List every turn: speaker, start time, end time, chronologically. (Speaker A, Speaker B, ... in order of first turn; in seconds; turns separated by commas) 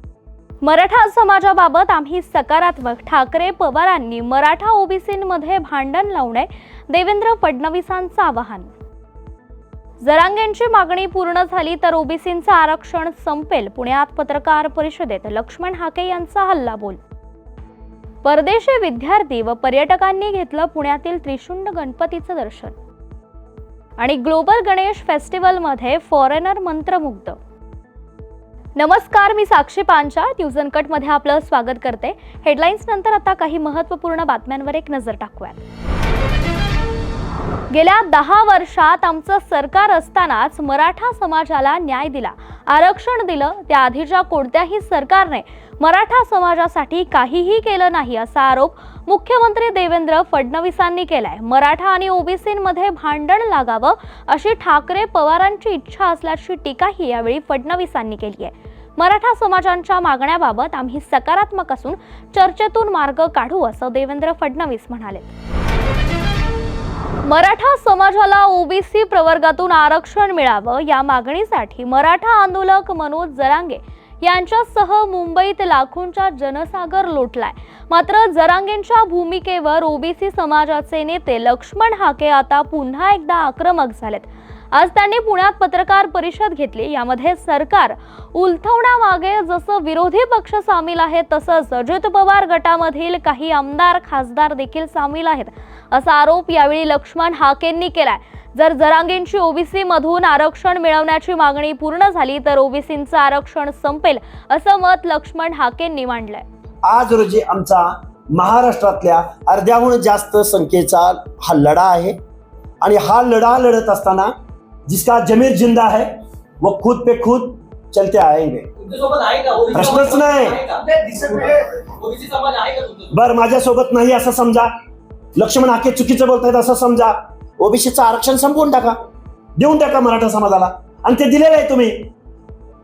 Speaker A: 0.6-8.7, Speaker A: 10.0-17.0, Speaker A: 18.2-22.7, Speaker A: 24.0-27.4, Speaker A: 28.8-35.6, Speaker A: 37.7-65.3, Speaker A: 67.2-106.4, Speaker B: 106.8-112.2, Speaker B: 112.8-114.3, Speaker B: 114.9-116.1, Speaker B: 116.6-118.7, Speaker C: 119.0-119.8, Speaker B: 119.7-120.7, Speaker C: 120.6-121.3, Speaker C: 122.1-123.0, Speaker B: 123.1-124.7, Speaker B: 125.4-129.0, Speaker B: 129.6-132.1